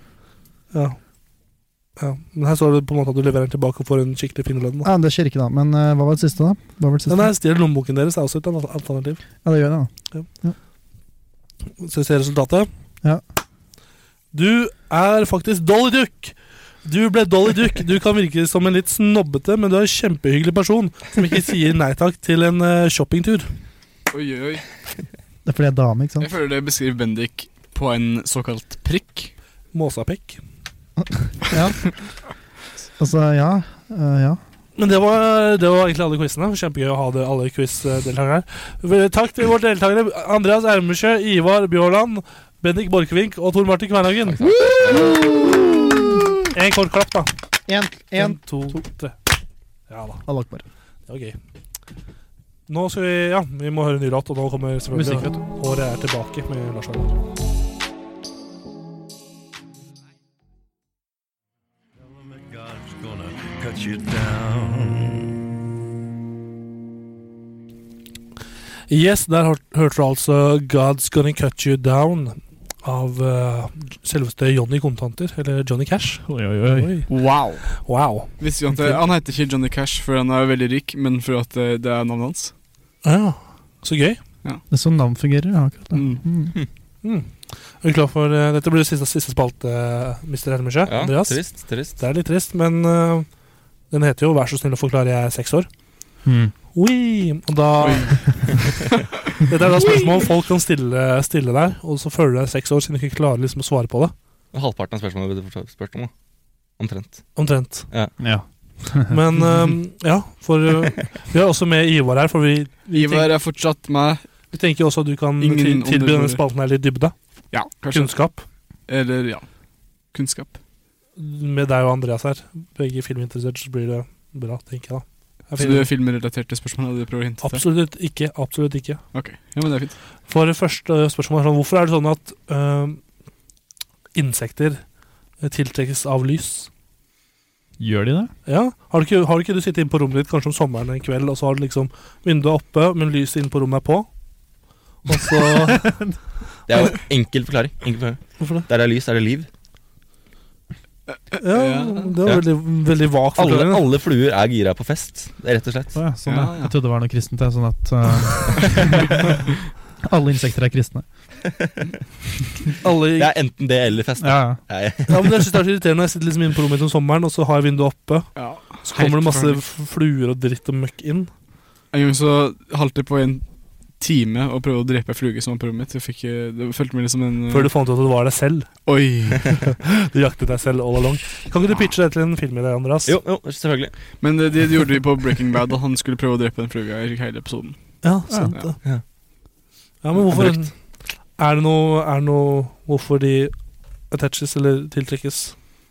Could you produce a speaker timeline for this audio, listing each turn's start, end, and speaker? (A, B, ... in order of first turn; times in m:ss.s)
0:00.7-0:01.0 A
0:02.0-0:04.9 A
0:04.8-0:07.3 B
0:07.1-0:09.2 A
0:09.4-0:10.6 B
0:11.8-0:12.7 A
0:14.3-0:23.5 A
0:24.1-0:24.7 C
0:25.4-0:26.3 B
0:26.2-0:29.3 C
0:29.7-0:30.4 A
0:31.5-0:31.9 B
0:33.0-0:34.4 B
0:34.8-0:44.4 A
0:44.3-0:45.2 D
0:44.4-0:46.3 B
0:46.5-0:47.3 A
0:47.7-0:48.8 B
0:48.2-0:49.2 A
0:49.9-0:50.3 A
0:50.2-0:50.6 B
0:51.1-0:51.4 A
0:52.7-0:57.2 A
0:54.9-0:55.4 B
1:08.9-1:17.1 A
1:16.3-1:17.0 B
1:17.1-1:17.8 C
1:17.7-1:18.3 A
1:18.4-1:22.5 C
1:18.7-1:19.0 B
1:23.0-1:24.2 A
1:24.7-1:26.5 B
1:25.9-1:26.2 C
1:27.0-1:33.3 A
1:30.9-1:32.0 D
1:33.9-1:35.7 A
1:36.2-1:36.5 B
1:36.7-1:38.6 A
1:37.8-1:39.0 C
1:39.5-1:44.1 A
1:39.8-1:40.0 C
1:44.5-1:46.1 D
1:46.8-1:47.4 D
1:47.4-1:47.9 A
1:48.2-1:49.5 B
1:49.1-1:53.3 A
1:52.9-1:54.3 C
1:54.5-1:57.1 A
1:55.4-1:56.4 C
1:57.5-1:58.2 C
1:57.7-1:58.4 A
1:58.9-1:59.5 C
2:00.1-2:00.6 C
2:01.2-2:05.9 A
2:05.6-2:07.6 C
2:07.4-2:09.0 A
2:09.1-2:10.0 C
2:10.3-2:13.0 A
2:14.2-2:14.8 A
2:15.4-2:16.7 A
2:17.8-2:18.3 B
2:18.5-2:24.1 A
2:25.1-2:26.0 A
2:25.8-2:26.1 B
2:26.7-2:29.5 D
2:28.4-2:28.7 A
2:31.1-2:32.1 C
2:31.4-2:33.8 A
2:33.4-2:36.0 D
2:36.0-2:39.1 B
2:36.3-2:36.7 C
2:40.0-2:41.1 B
2:42.8-2:43.3 A
2:43.2-2:45.5 D
2:44.2-2:44.6 B
2:45.1-2:51.3 A
2:48.4-2:49.6 C
2:51.9-2:53.4 C
2:54.0-2:57.7 C
2:57.5-2:58.9 A
2:58.9-2:59.7 C
2:59.8-3:03.2 A
3:03.1-3:04.0 D
3:04.2-3:07.9 C
3:08.0-3:08.8 A
3:08.3-3:08.6 B
3:10.0-3:13.5 A
3:14.1-3:15.6 A